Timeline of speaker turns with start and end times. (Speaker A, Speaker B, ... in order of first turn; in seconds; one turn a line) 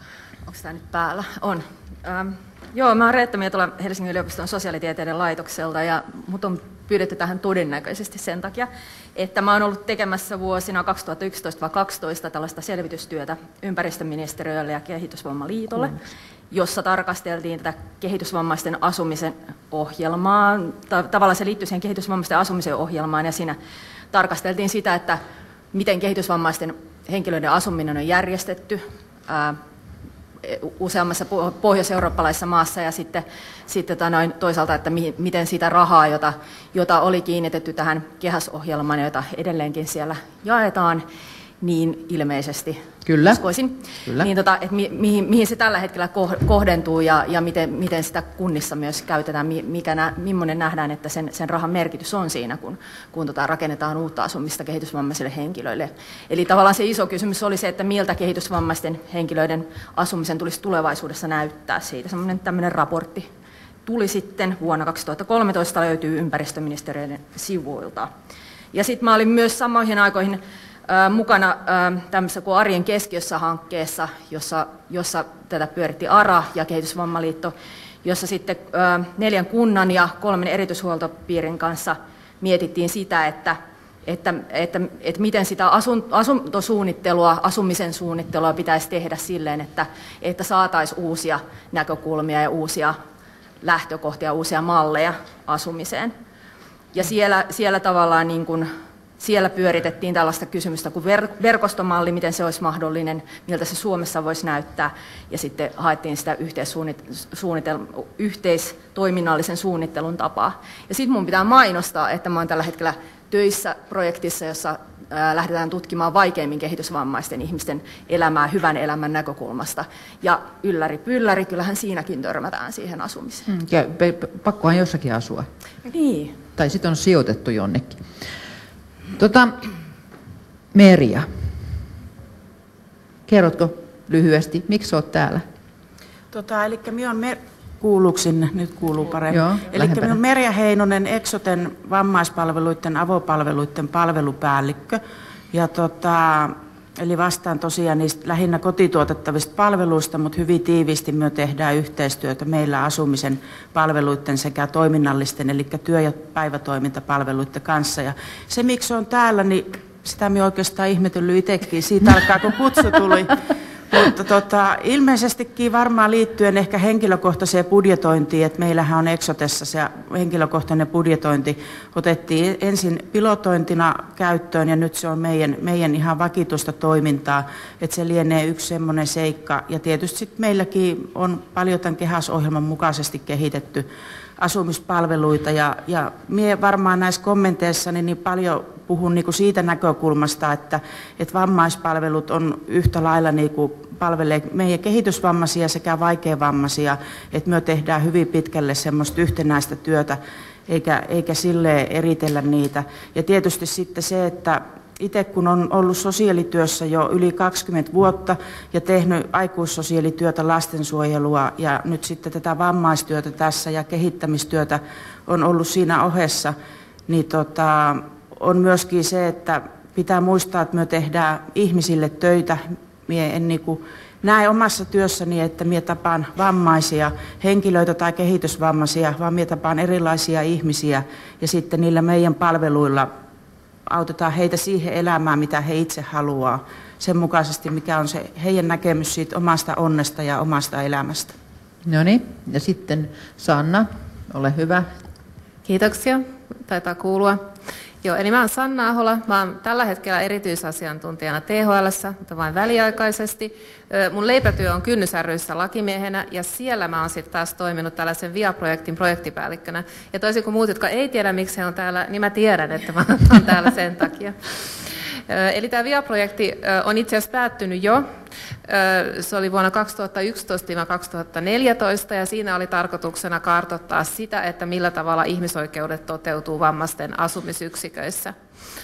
Speaker A: 0.5-16.0
Speaker A: 16.5-23.6
Speaker A: 24.1-25.2
Speaker A: 25.7-29.6
Speaker A: 30.4-41.0
Speaker A: 41.6-63.3
Speaker B: 43.0-43.4
Speaker A: 63.8-68.1
Speaker A: 68.7-93.0
Speaker A: 93.6-96.1
Speaker A: 96.9-123.5
Speaker B: 123.5-125.5
Speaker A: 125.9-126.3
Speaker B: 126.5-128.0
Speaker B: 129.2-129.6
Speaker B: 130.7-131.3
Speaker B: 133.3-135.4
Speaker C: 136.3-145.0
Speaker B: 139.3-140.2
Speaker C: 145.5-163.4
Speaker C: 163.9-183.9
Speaker C: 184.4-216.5
Speaker C: 217.1-233.1
Speaker C: 233.9-241.3
Speaker B: 241.8-244.9
Speaker D: 245.6-247.4
Speaker D: 248.0-268.1
Speaker D: 268.6-278.4